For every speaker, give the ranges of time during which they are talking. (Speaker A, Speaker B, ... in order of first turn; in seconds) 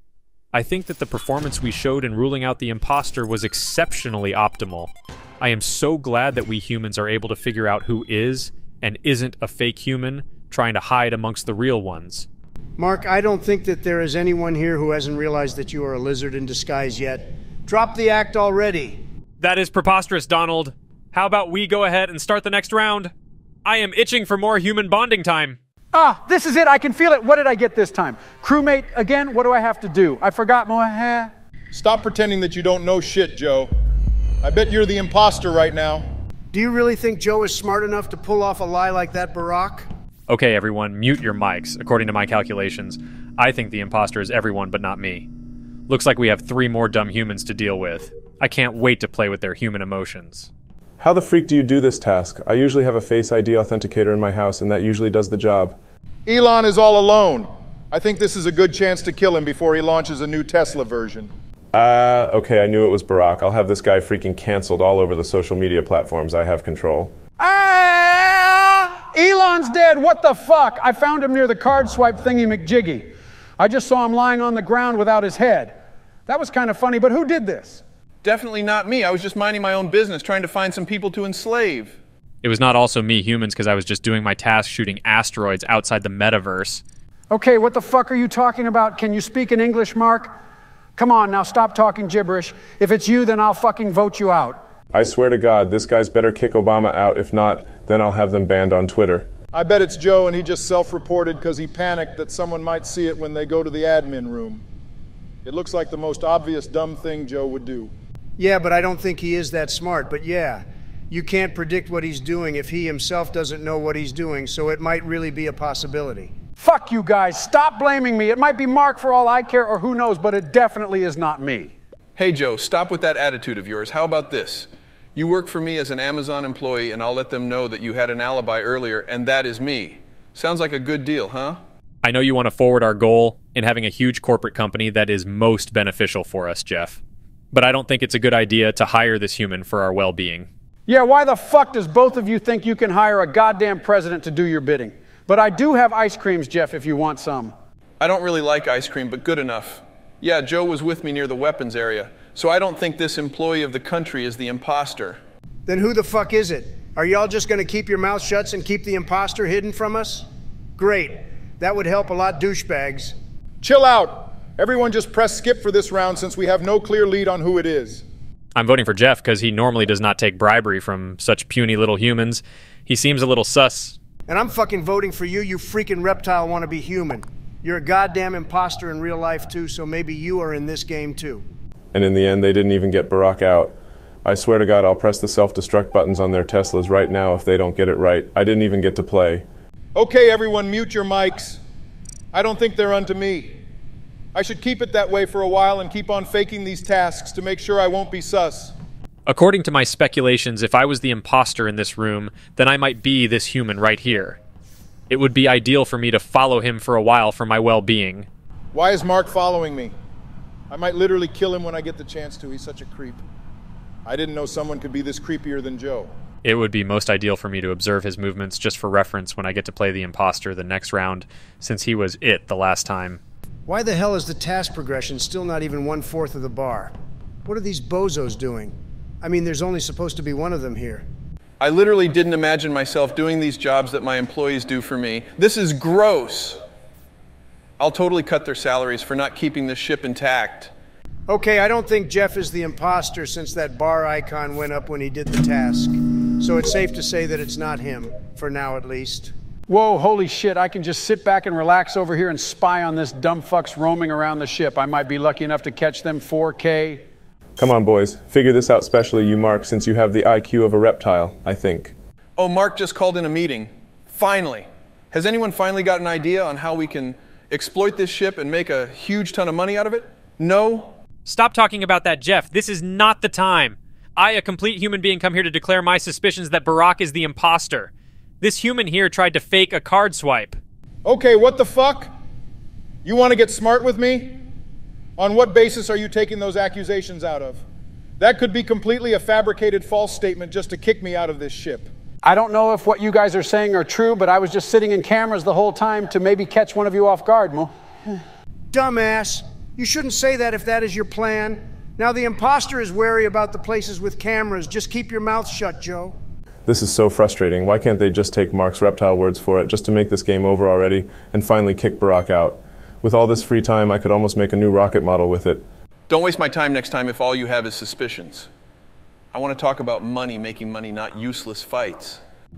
Speaker A: 0.5-12.3, 19.4-23.1, 23.6-25.6, 40.3-45.3, 45.9-50.5, 82.4-86.8, 132.0-137.0, 137.5-140.5, 168.5-173.9, 199.3-204.4, 205.1-208.3, 216.4-223.2, 271.2-280.6
Speaker B: 12.8-19.0, 36.5-39.9, 108.4-116.3, 155.7-160.2, 160.8-163.1, 174.3-181.4, 223.7-226.9, 227.4-231.0, 241.3-249.3, 298.7-306.1
Speaker C: 25.9-31.3, 67.4-73.1, 73.6-75.7, 76.3-77.8, 87.3-90.3, 91.0-94.6, 116.6-121.7, 140.9-147.5, 249.7-257.0, 292.2-297.7
Speaker D: 31.7-33.7, 34.4-36.0, 56.2-61.3, 99.5-104.6, 105.4-107.9, 163.6-168.0, 189.9-191.6, 192.3-193.5, 194.3-198.7, 208.7-209.9, 210.7-213.2, 214.1-216.1, 281.0-282.1, 283.0-284.4, 285.2-287.6, 288.2-291.9
Speaker E: 51.0-55.8, 61.7-67.1, 94.9-99.3, 181.9-189.4, 257.6-261.9, 306.6-315.6
Speaker F: 78.2-82.0, 122.2-131.6, 148.0-155.2, 231.6-236.6, 237.8-240.7, 262.4-270.9, 316.1-318.5, 319.3-322.2